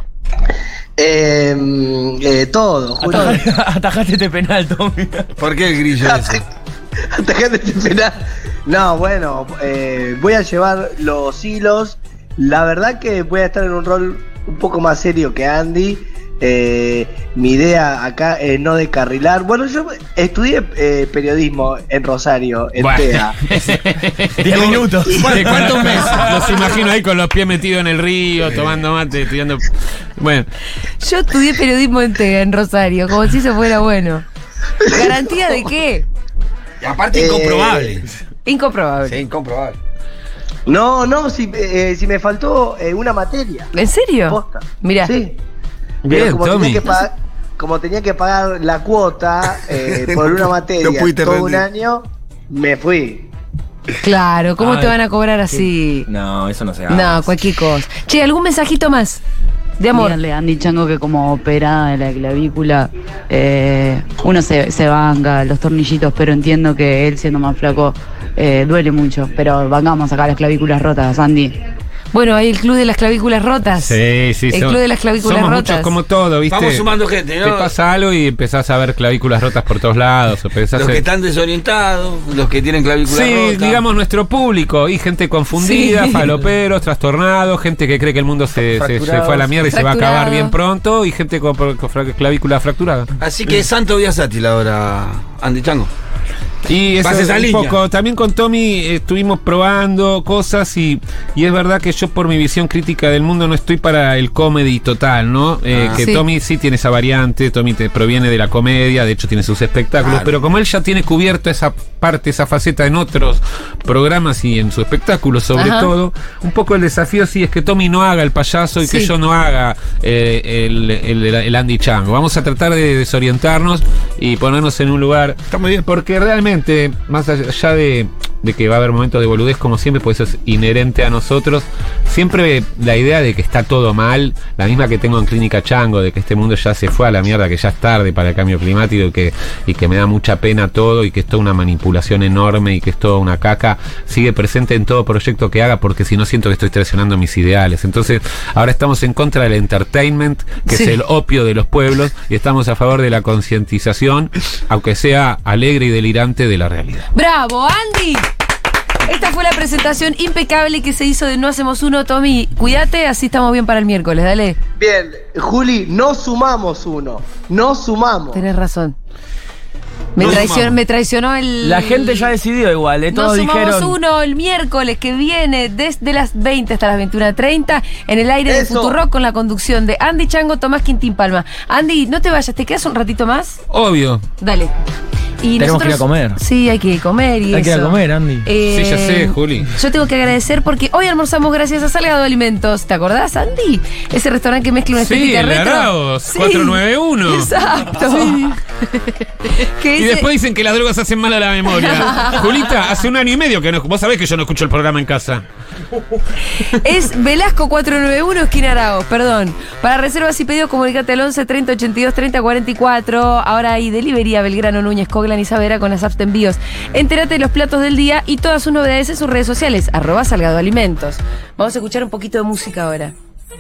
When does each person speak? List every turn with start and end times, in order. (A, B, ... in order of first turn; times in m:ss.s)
0:01.0-0:03.4 A
0:03.0-0:05.3 B
0:03.1-0:03.4 C
0:05.4-0:06.4 D
0:06.1-0:06.4 A
0:07.1-0:23.4 A
0:22.8-0:30.5 E
0:24.4-0:26.4 B
0:24.5-0:26.5 D
0:31.0-0:34.2 C
0:34.9-0:36.1 C
0:36.8-0:38.1 D
0:37.1-0:38.0 A
0:38.5-0:39.2 C
0:39.1-0:39.8 D
0:40.7-0:43.7 A
0:43.7-0:45.1 C
0:44.3-0:45.4 A
0:46.0-0:46.8 E
0:46.1-0:53.3 A
0:50.0-0:51.6 D
0:54.0-0:56.1 C
0:54.6-0:55.0 B
0:55.5-0:57.3 B
0:56.9-0:59.2 C
0:59.8-1:00.2 C
0:59.9-1:11.6 F
1:12.1-1:14.0 C
1:13.8-1:21.0 E
1:14.5-1:15.9 C
1:16.5-1:17.7 D
1:20.7-1:23.8 D
1:23.1-1:33.1 E
1:25.6-1:26.3 C
1:28.7-1:29.7 B
1:29.7-1:30.6 C
1:33.2-1:35.9 D
1:36.7-2:37.1 E
1:37.0-1:37.8 D
1:45.7-1:46.1 D
1:46.0-1:46.2 C
1:50.0-1:50.4 D
1:55.6-1:55.9 C
1:58.8-1:59.1 C
2:05.5-2:05.8 D
2:30.7-2:30.9 C
2:37.1-2:38.3 C
2:39.1-2:44.6 C
2:44.8-2:48.4 A
2:48.3-2:49.0 C
2:50.2-2:52.3 C
2:50.2-2:50.5 B
2:50.2-2:50.8 D
2:51.6-2:54.0 B
2:53.1-3:03.6 C
2:58.5-2:59.0 A
3:03.7-3:04.3 E
3:04.4-3:04.7 C
3:05.4-3:18.6 C
3:05.6-3:06.4 B
3:07.5-3:08.5 B
3:08.7-3:09.7 E
3:15.0-3:18.4 E
3:19.8-3:20.3 C
3:20.0-3:25.4 E
3:21.8-3:22.4 C
3:26.6-3:43.1 C